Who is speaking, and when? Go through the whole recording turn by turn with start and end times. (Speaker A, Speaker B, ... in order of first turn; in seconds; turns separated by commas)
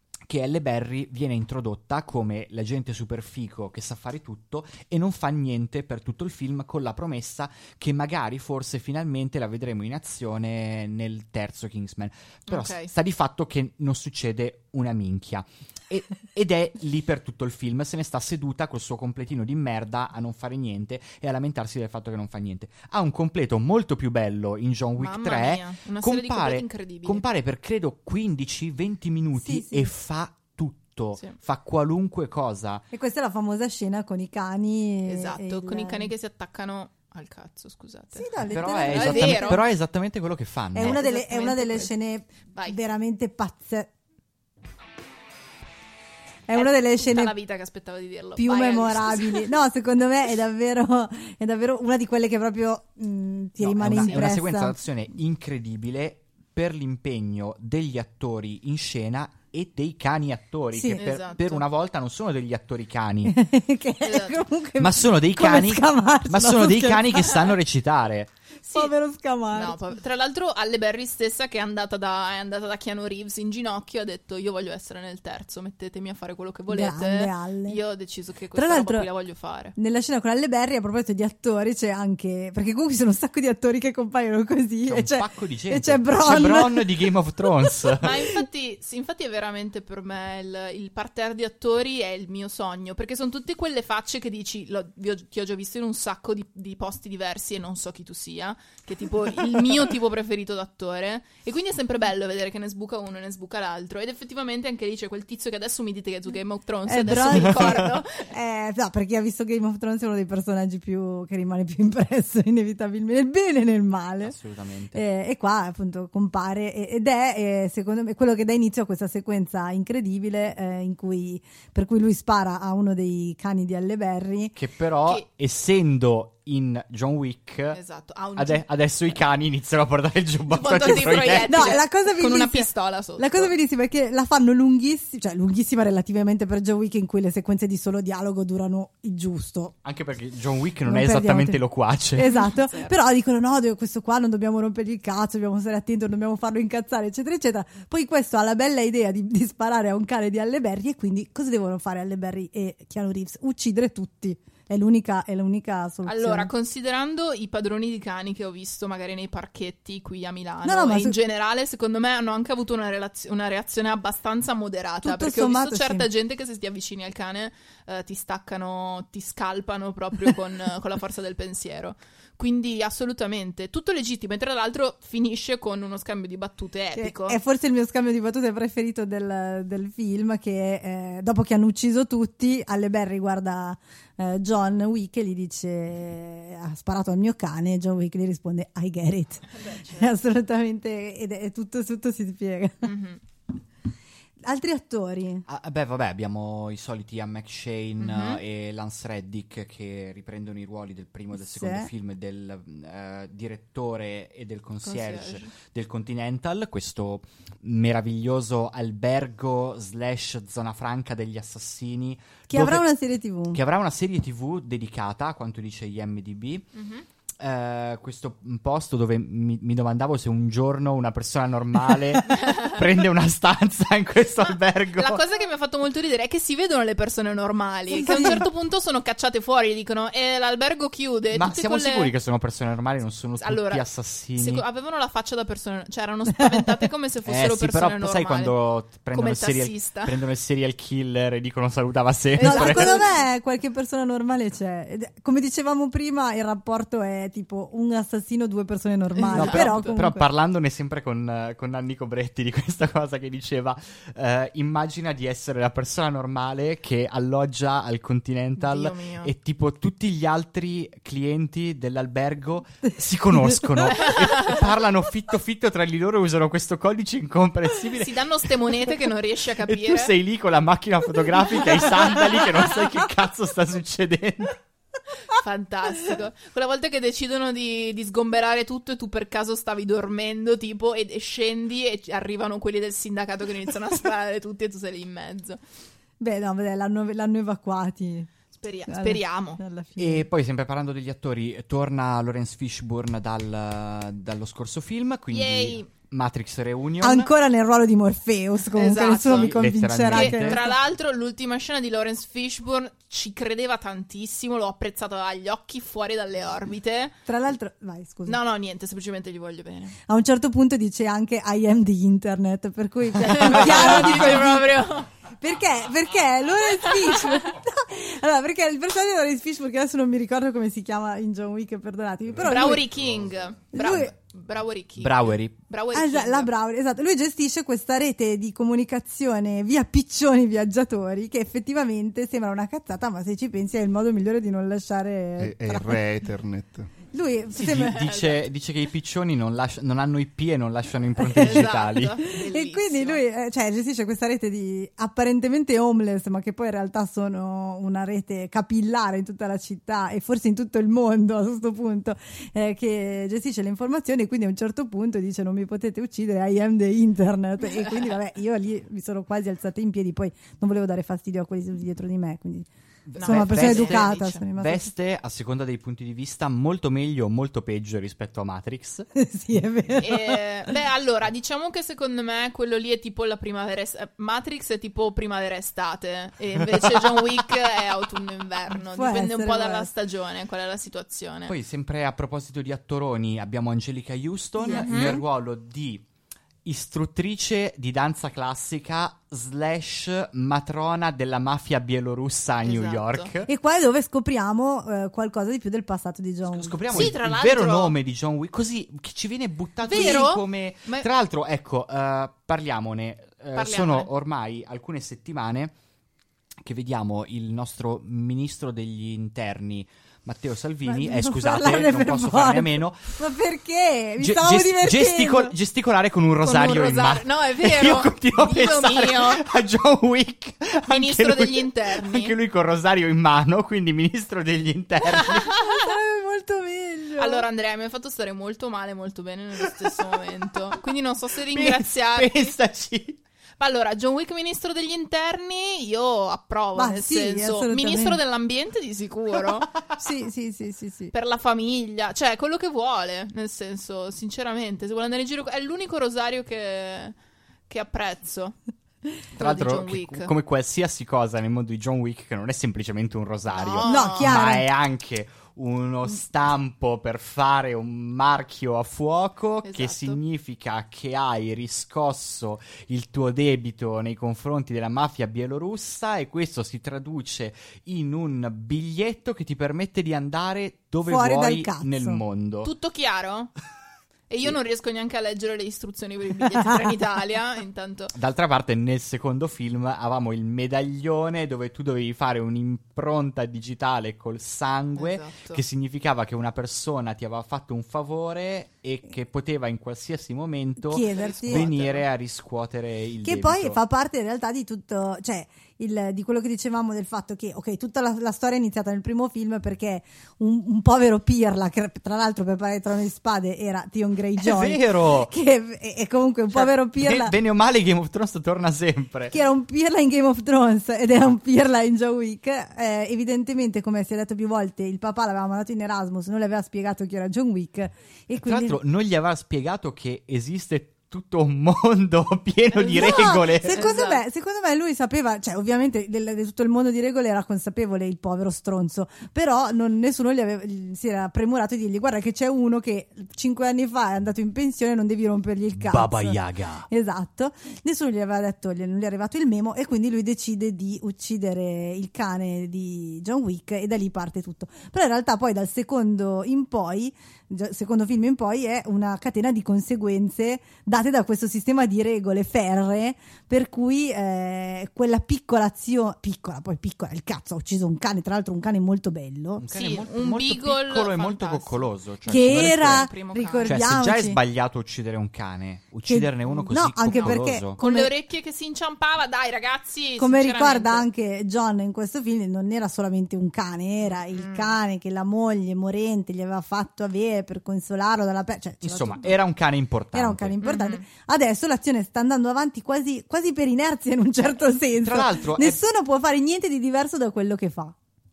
Speaker A: 0.2-32.8, Speaker B: 12.5-12.9, Speaker B: 25.0-27.2, Speaker C: 29.4-29.9, Speaker C: 32.9-36.1, Speaker B: 35.0-39.6, Speaker C: 38.1-39.6, Speaker A: 38.5-41.0, Speaker C: 40.7-43.9, Speaker B: 40.8-41.9, Speaker C: 46.5-47.4, Speaker B: 46.5-49.5, Speaker C: 48.4-54.7, Speaker A: 53.6-63.4, Speaker C: 60.7-61.0, Speaker B: 61.0-61.6, Speaker C: 63.2-67.4, Speaker B: 64.0-64.4, Speaker A: 64.8-68.3, Speaker B: 68.6-68.9, Speaker C: 68.7-69.8, Speaker B: 69.5-79.7, Speaker C: 76.7-77.8, Speaker C: 78.5-79.1, Speaker C: 79.8-87.1, Speaker A: 84.9-88.2, Speaker B: 88.0-108.3, Speaker C: 106.9-114.4, Speaker A: 107.1-107.9, Speaker A: 114.2-115.0, Speaker C: 114.9-124.5, Speaker A: 124.5-127.8, Speaker B: 127.7-128.6, Speaker A: 128.3-131.8, Speaker B: 130.5-133.5, Speaker C: 131.5-139.7, Speaker A: 139.8-142.3, Speaker C: 140.9-141.6, Speaker C: 142.1-156.5, Speaker B: 142.2-142.9, Speaker B: 156.0-177.4, Speaker C: 160.6-161.2, Speaker C: 165.0-166.1, Speaker C: 176.9-192.9, Speaker B: 189.5-190.1, Speaker B: 192.8-193.2, Speaker C: 194.4-195.4, Speaker A: 195.5-212.8, Speaker B: 198.0-198.4, Speaker C: 201.4-201.9, Speaker B: 204.8-205.5, Speaker C: 212.5-213.6, Speaker A: 213.5-216.7, Speaker B: 216.8-217.1, Speaker A: 217.4-225.2, Speaker B: 222.3-222.8, Speaker B: 225.0-232.1, Speaker C: 227.9-228.4, Speaker A: 231.3-234.6, Speaker B: 233.4-240.1, Speaker A: 237.2-243.0, Speaker B: 242.4-243.1, Speaker C: 242.4-250.2, Speaker B: 249.1-250.0, Speaker A: 249.3-268.5, Speaker B: 258.6-259.3, Speaker B: 264.0-264.6, Speaker B: 268.0-270.1, Speaker A: 269.6-274.6, Speaker B: 275.3-285.6, Speaker C: 286.2-288.3, Speaker B: 288.5-289.6, Speaker C: 288.9-290.3, Speaker A: 290.0-297.3, Speaker B: 295.3-295.9, Speaker C: 297.0-300.7, Speaker B: 298.8-299.5, Speaker A: 299.2-300.6, Speaker B: 300.1-307.1, Speaker C: 307.3-308.4, Speaker B: 308.2-310.0, Speaker C: 310.1-322.9, Speaker B: 313.2-315.1, Speaker B: 316.8-317.5, Speaker D: 322.4-323.5, Speaker B: 322.4-326.5, Speaker C: 323.7-324.1, Speaker A: 325.0-325.5, Speaker C: 325.9-336.0, Speaker D: 335.4-336.9, Speaker C: 337.1-338.0, Speaker A: 337.5-342.1, Speaker B: 337.8-338.4, Speaker C: 341.2-341.7, Speaker B: 341.4-343.2, Speaker C: 342.3-362.7, Speaker A: 363.1-369.1, Speaker B: 363.1-364.4, Speaker C: 363.2-364.9, Speaker C: 369.1-370.4, Speaker B: 370.0-381.5, Speaker A: 376.6-377.2, Speaker C: 378.7-379.9, Speaker A: 381.5-386.0, Speaker C: 384.6-385.2, Speaker B: 384.6-385.2, Speaker A: 386.6-393.5, Speaker B: 392.6-393.3, Speaker C: 393.5-397.1, Speaker A: 396.5-405.7, Speaker B: 396.9-397.9, Speaker B: 399.9-401.1, Speaker B: 403.5-404.1, Speaker A: 406.6-413.2, Speaker C: 410.9-415.5, Speaker A: 414.2-425.5, Speaker B: 416.4-419.4, Speaker B: 420.8-422.4, Speaker B: 425.1-425.9, Speaker C: 425.6-427.4, Speaker B: 427.2-432.5, Speaker A: 429.8-430.1, Speaker A: 431.5-433.2, Speaker B: 433.6-439.7, Speaker C: 436.8-438.2, Speaker A: 439.8-440.0, Speaker C: 440.0-441.1, Speaker B: 441.1-447.1, Speaker B: 447.7-448.6, Speaker B: 449.4-450.3, Speaker A: 449.4-472.7, Speaker B: 453.5-454.4, Speaker C: 453.9-454.7, Speaker B: 459.6-460.2, Speaker C: 471.0-472.2, Speaker B: 472.6-473.5, Speaker B: 474.3-478.1, Speaker A: 478.1-493.8, Speaker B: 484.9-485.6, Speaker C: 490.8-491.7, Speaker B: 491.0-492.1, Speaker C: 493.2-507.3, Speaker A: 504.4-505.3, Speaker A: 506.5-509.4, Speaker C: 509.3-518.8, Speaker A: 518.4-523.9, Speaker B: 522.8-524.2, Speaker C: 522.9-536.4, Speaker A: 535.9-536.9, Speaker C: 536.9-559.6, Speaker A: 559.6-563.1, Speaker B: 559.7-563.8, Speaker C: 562.3-564.4, Speaker A: 563.6-567.8, Speaker C: 566.1-568.1, Speaker B: 567.1-571.1, Speaker C: 570.2-579.4, Speaker B: 574.3-574.8, Speaker A: 578.8-580.6, Speaker C: 580.1-587.9, Speaker B: 580.6-581.0, Speaker A: 585.0-585.8